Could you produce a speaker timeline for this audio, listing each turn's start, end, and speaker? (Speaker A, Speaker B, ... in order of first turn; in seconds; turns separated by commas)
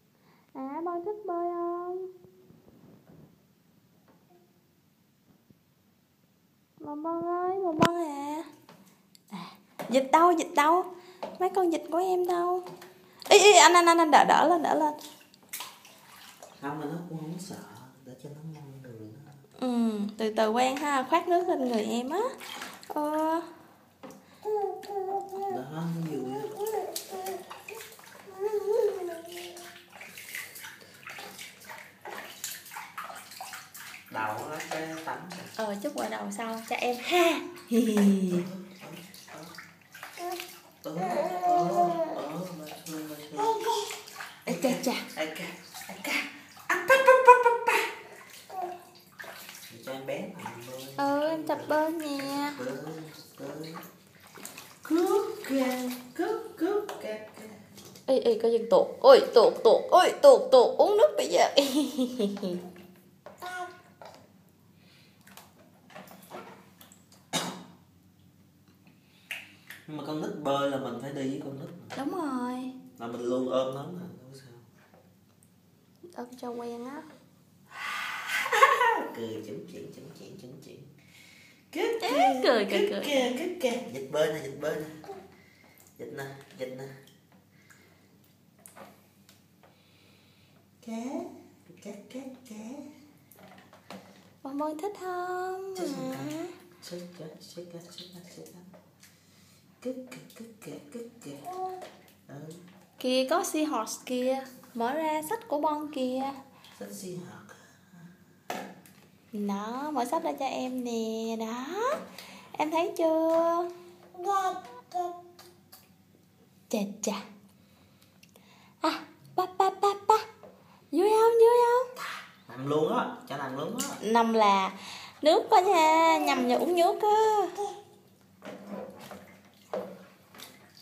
Speaker A: 0.5-2.1, Speaker A: 6.8-8.5, Speaker A: 9.3-10.8, Speaker A: 11.4-12.6, Speaker A: 13.3-15.0, Speaker B: 16.6-19.3, Speaker A: 19.6-22.3, Speaker A: 22.9-23.5, Speaker B: 25.4-26.6, Speaker A: 28.5-29.2, Speaker B: 34.1-35.5, Speaker A: 35.6-38.5, Speaker B: 38.3-39.5, Speaker B: 40.8-43.6, Speaker A: 41.0-42.1, Speaker A: 43.4-43.9, Speaker B: 44.5-47.9, Speaker A: 44.5-45.0, Speaker B: 49.7-53.8, Speaker A: 51.0-52.6, Speaker B: 54.8-57.6, Speaker A: 58.1-62.6, Speaker B: 69.9-72.0, Speaker A: 71.9-72.8, Speaker B: 73.0-74.7, Speaker A: 76.1-77.0, Speaker B: 77.8-80.9, Speaker B: 81.7-85.0, Speaker A: 82.0-83.3, Speaker B: 86.0-86.9, Speaker B: 90.8-92.9, Speaker A: 94.4-96.5, Speaker B: 95.7-98.7, Speaker B: 99.8-101.5, Speaker B: 102.3-102.6, Speaker A: 103.0-106.3, Speaker B: 106.7-107.6, Speaker A: 109.3-112.0, Speaker A: 112.5-115.1, Speaker A: 116.7-117.2, Speaker A: 118.8-120.2, Speaker A: 120.9-121.9, Speaker B: 122.5-124.0, Speaker A: 124.0-127.7